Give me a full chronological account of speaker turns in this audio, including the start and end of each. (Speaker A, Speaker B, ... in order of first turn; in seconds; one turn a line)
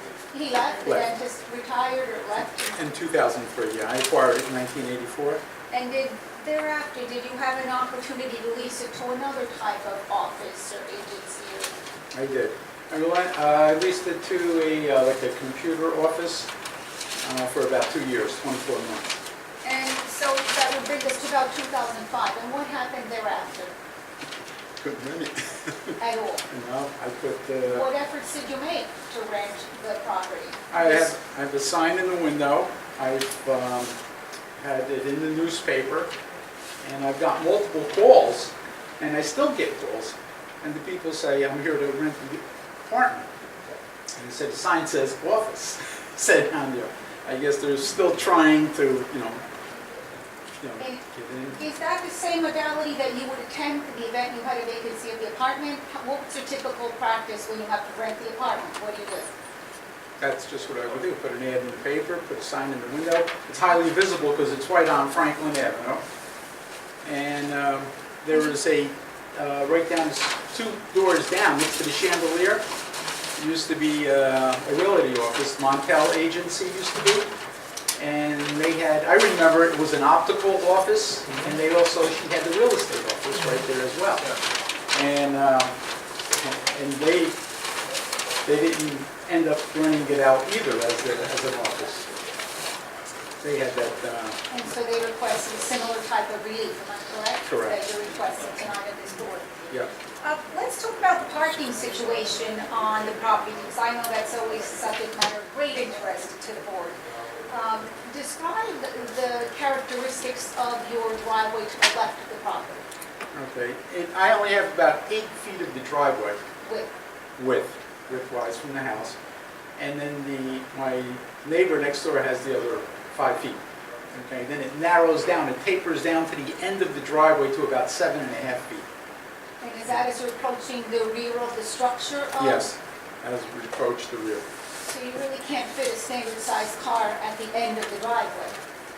Speaker A: 0.3-2.7
Speaker B: 0.8-1.1
Speaker B: 2.7-5.4
Speaker A: 5.7-11.8
Speaker B: 12.1-16.5
Speaker B: 17.2-19.2
Speaker A: 19.6-23.7
Speaker B: 24.8-25.9
Speaker A: 26.0-26.5
Speaker B: 26.5-27.9
Speaker A: 27.7-31.1
Speaker B: 30.7-34.0
Speaker B: 34.6-36.1
Speaker B: 36.8-43.3
Speaker B: 44.2-49.4
Speaker B: 50.6-51.6
Speaker A: 51.5-59.3
Speaker B: 60.2-66.0
Speaker B: 67.0-72.6
Speaker B: 73.4-77.3
Speaker B: 78.0-84.4
Speaker B: 84.9-85.8
Speaker B: 86.4-87.4
Speaker B: 88.5-92.1
Speaker B: 93.4-94.4
Speaker A: 94.5-99.5
Speaker B: 97.5-97.8
Speaker A: 100.2-112.9
Speaker B: 113.3-116.4
Speaker A: 116.6-116.9
Speaker B: 117.4-119.2
Speaker B: 119.8-123.6
Speaker B: 124.1-128.9
Speaker A: 129.6-132.7
Speaker B: 132.4-134.5
Speaker A: 134.8-138.6